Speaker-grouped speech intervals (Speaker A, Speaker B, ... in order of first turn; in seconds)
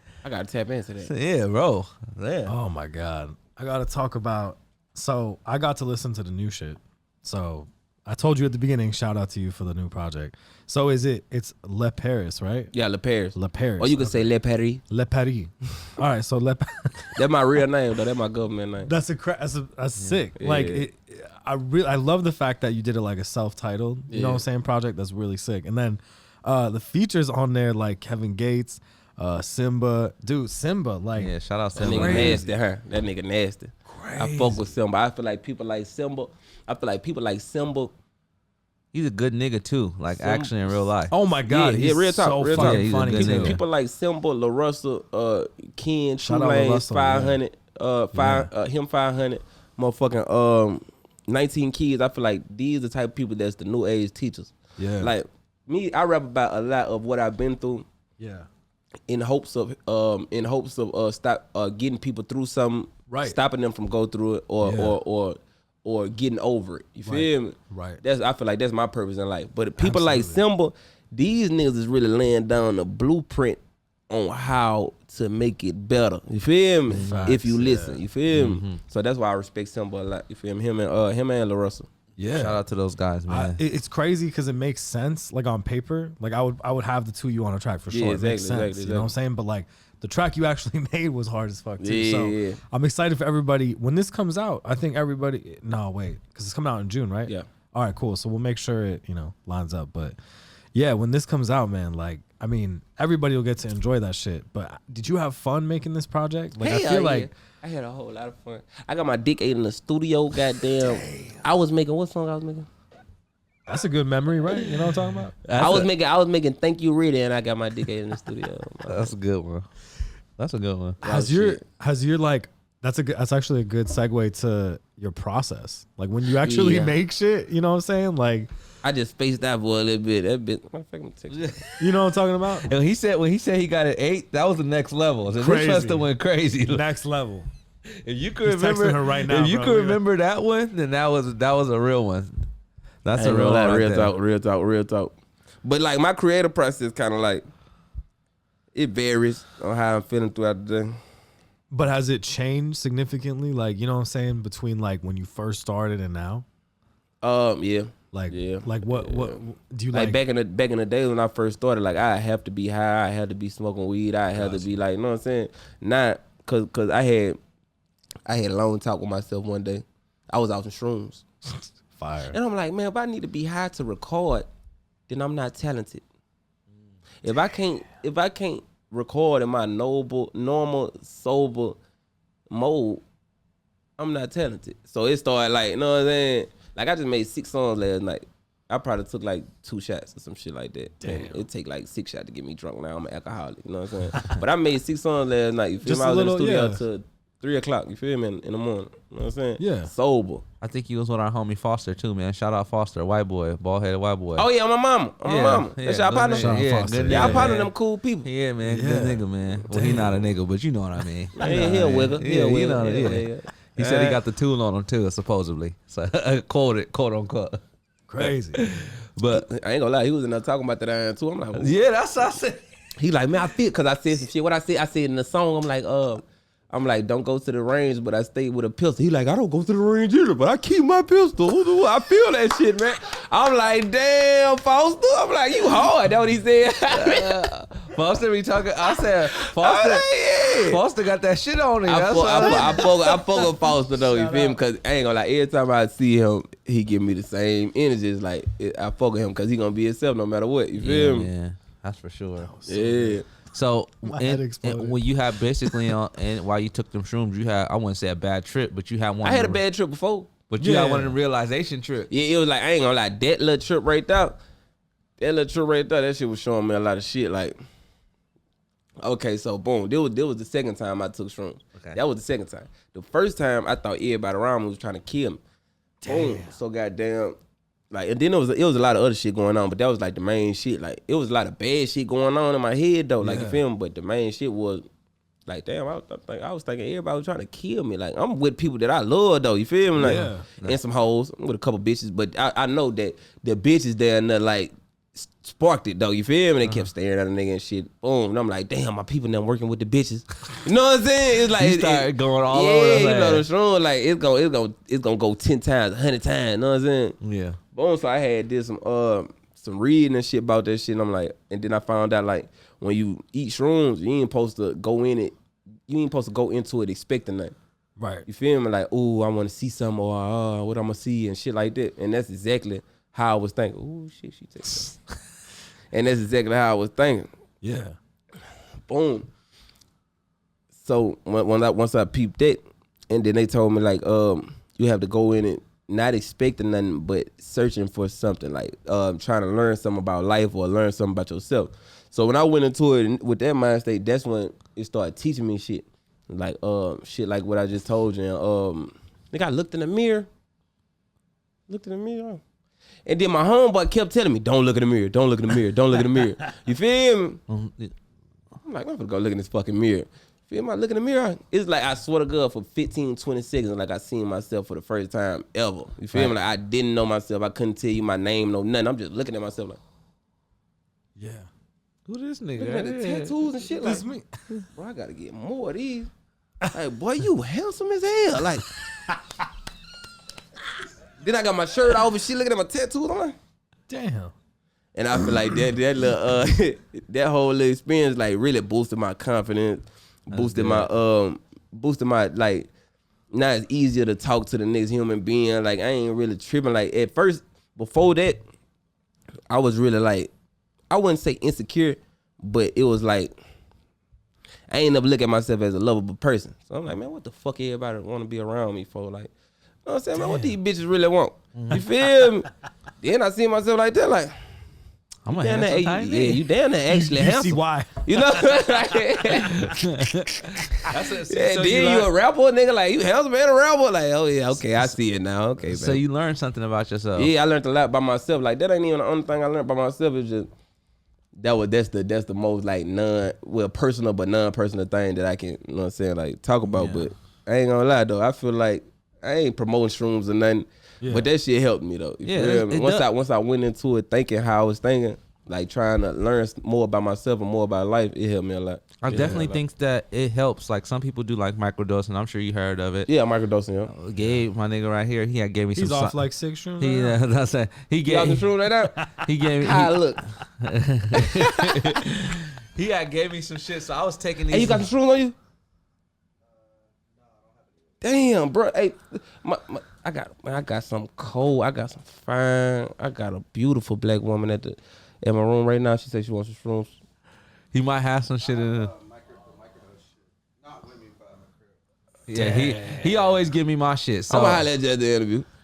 Speaker A: 0.2-1.1, 12.7-14.8, 17.1-18.9, 20.4-20.9, 24.1-24.4, 31.8-37.9, 40.1-40.8, 41.5-57.9, 59.1-81.9, 87.9-89.1, 91.8-92.6, 106.6-112.7, 115.5-119.1, 121.0-121.6, 126.4-127.0, 128.8-131.5, 143.2-147.4, 148.7-151.0, 157.2-159.4, 159.9-167.4, 168.2-171.2, 172.3-174.5, 175.1-176.0, 177.2-181.8, 182.5-183.0, 184.0-200.4, 204.3-208.3, 211.4-214.2, 219.3-221.8, 223.0-237.5, 239.3-240.8, 241.8-251.3, 252.7-253.2, 259.2-260.3, 262.1-264.4, 265.2-267.6, 269.0-275.4, 276.1-277.4, 277.9-284.9, 285.5-307.2, 307.7-315.3, 315.9-317.5, 318.3-324.9, 325.9-327.3, 328.9-329.3, 330.8-350.3, 351.7-352.4, 353.1-357.4, 358.6-369.8, 372.6-374.0, 374.7-376.1, 376.7-378.7, 381.2-383.4, 384.9-392.7, 393.3-398.4, 399.5-400.3, 400.9-403.3, 404.7-409.3, 409.8-414.4, 415.3-419.8, 420.5-426.0, 427.1-430.5, 431.4-449.6, 453.1-453.9, 458.1-460.2, 461.1-462.0, 464.5-465.3, 468.0-477.0, 484.3-485.5
Speaker B: 1.1-2.5, 31.2-32.4, 38.9-41.1, 42.5-43.6, 76.9-77.4, 78.3-78.8, 82.3-83.6, 115.4-115.9, 118.9-119.7, 120.4-121.0, 131.3-131.9, 132.6-136.8, 138.0-142.4, 143.0-144.1, 200.6-204.4, 205.2-207.7, 208.2-217.6, 218.2-219.4, 221.6-222.6, 236.9-243.2, 250.8-252.6, 253.5-259.6, 260.5-262.1, 301.5-303.4, 307.2-307.6, 357.5-357.9, 372.1-373.6, 390.3-390.9, 411.5-411.8, 415.2-416.4, 419.5-422.1, 425.6-427.3, 436.7-437.1, 442.2-443.1, 449.0-453.1, 453.9-456.1, 456.8-458.5, 459.1-464.9, 477.7-478.9, 482.3-484.7
Speaker C: 2.5-12.7, 13.3-14.3, 14.9-17.2, 18.8-32.5, 33.9-34.7, 41.1-43.6, 46.2-47.4, 48.1-48.5, 54.8-55.1, 58.2-58.5, 63.1-63.4, 64.6-65.0, 67.0-68.0, 69.8-70.4, 76.9-78.0, 82.2-82.6, 83.3-100.2, 100.7-107.3, 113.7-115.3, 121.0-128.5, 131.8-132.7, 135.3-136.1, 136.6-137.5, 138.4-140.0, 151.7-156.4, 158.1-160.2, 164.3-164.7, 171.9-172.4, 191.0-191.4, 195.8-196.8, 199.6-199.9, 206.3-207.5, 208.6-210.2, 211.4-212.1, 218.1-218.8, 242.4-244.6, 252.4-253.2, 254.0-255.0, 255.6-255.9, 260.6-261.2, 276.0-276.5, 283.2-283.6, 290.0-290.4, 318.0-318.2, 327.6-328.0, 371.1-371.5, 373.7-374.4, 383.9-384.3, 410.2-410.5, 416.9-418.7, 419.6-420.2, 441.0-441.3, 455.7-457.2, 482.3-482.8